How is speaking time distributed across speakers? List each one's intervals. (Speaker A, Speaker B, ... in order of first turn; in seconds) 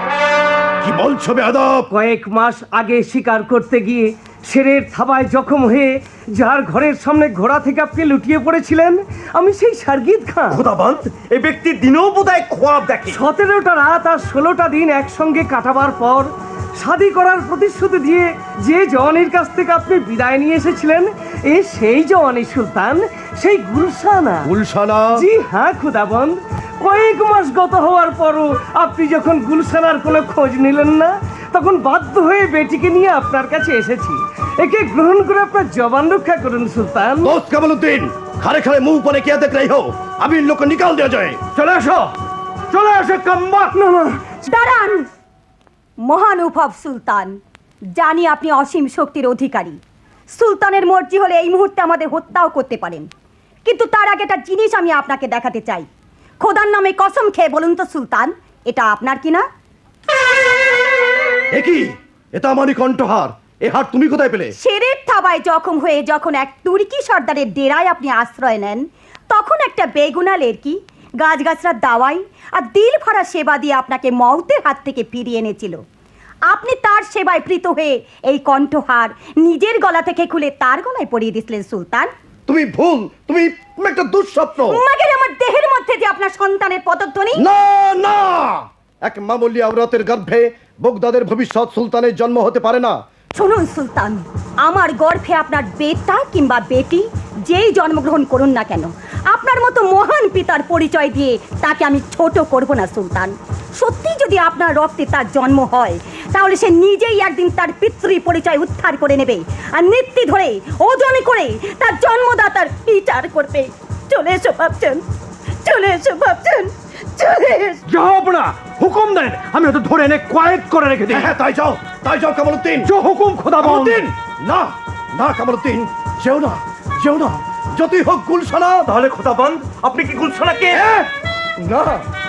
Speaker A: 0.8-1.9, 24.5-25.1, 37.2-41.4, 61.5-64.5, 82.5-84.8, 87.4-93.0, 121.1-122.9, 123.6-128.8, 130.7-131.1, 131.6-132.0
Speaker B: 1.9-10.6, 13.1-24.5, 25.2-37.4, 43.7-44.1
Speaker C: 10.5-13.2, 128.8-130.8
Speaker D: 41.5-42.0, 42.7-43.7, 117.9-121.3, 122.8-124.1
Speaker E: 44.4-45.1, 46.0-47.4, 48.0-49.8, 50.3-53.1, 53.7-55.9, 56.4-59.5, 64.6-75.8, 76.5-82.1, 84.7-87.5, 93.3-115.0, 115.6-117.8